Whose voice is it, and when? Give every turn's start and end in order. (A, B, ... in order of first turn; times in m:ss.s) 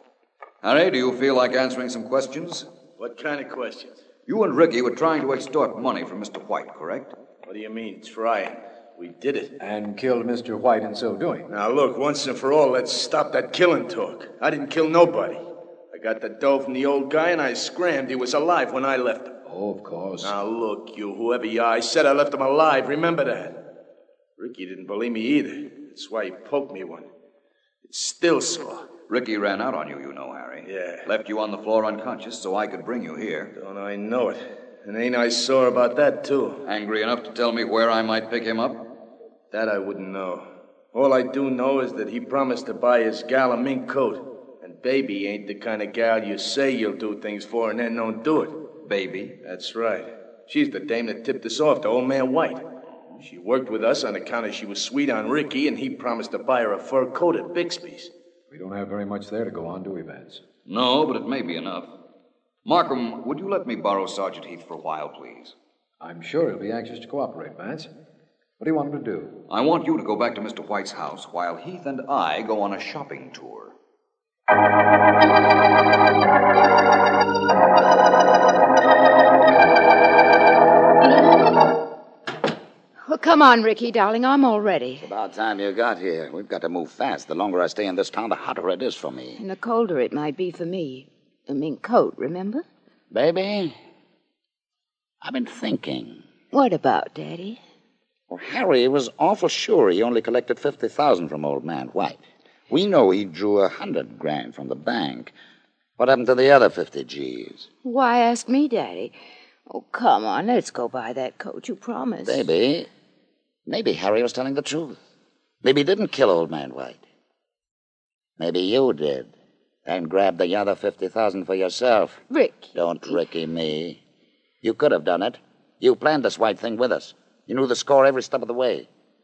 0:00.6-0:02.7 A
0:03.0-0:04.0 B
0:04.3-0:07.2 A
0:07.5-0:09.5 B
0:09.6-0:11.5 C
0:11.5-0:19.4 B
0:19.5-0:20.4 C
0:20.2-0:23.6 B
0:24.4-0:27.1 B
0:27.8-0:28.9 B
0:29.1-0:33.5 A
0:30.6-0:31.1 B
0:33.6-0:36.6 B
0:36.6-0:38.8 A
0:39.5-0:48.6 B
0:48.8-0:49.4 A
0:49.4-0:52.6 B
0:53.2-0:58.1 B
0:58.5-1:00.4 C
1:00.7-1:01.9 A
1:02.6-1:05.5 A
1:06.0-1:07.9 C
1:08.6-1:09.4 C
1:09.5-1:13.7 A
1:23.0-1:25.1 D
1:25.0-1:29.4 E
1:29.4-1:32.6 D
1:33.1-1:33.8 E
1:35.2-1:36.2 E
1:36.5-1:37.6 D
1:38.3-1:45.3 E
1:46.0-1:47.7 E
1:47.8-1:49.2 D
1:49.7-1:52.5 D
1:52.2-1:52.9 E
1:53.7-1:55.0 E
1:55.6-1:57.0 E
1:58.4-1:59.3 E
1:59.8-2:02.2 E
2:02.3-2:03.2 D
2:02.7-2:04.0 E
2:04.6-2:08.9 E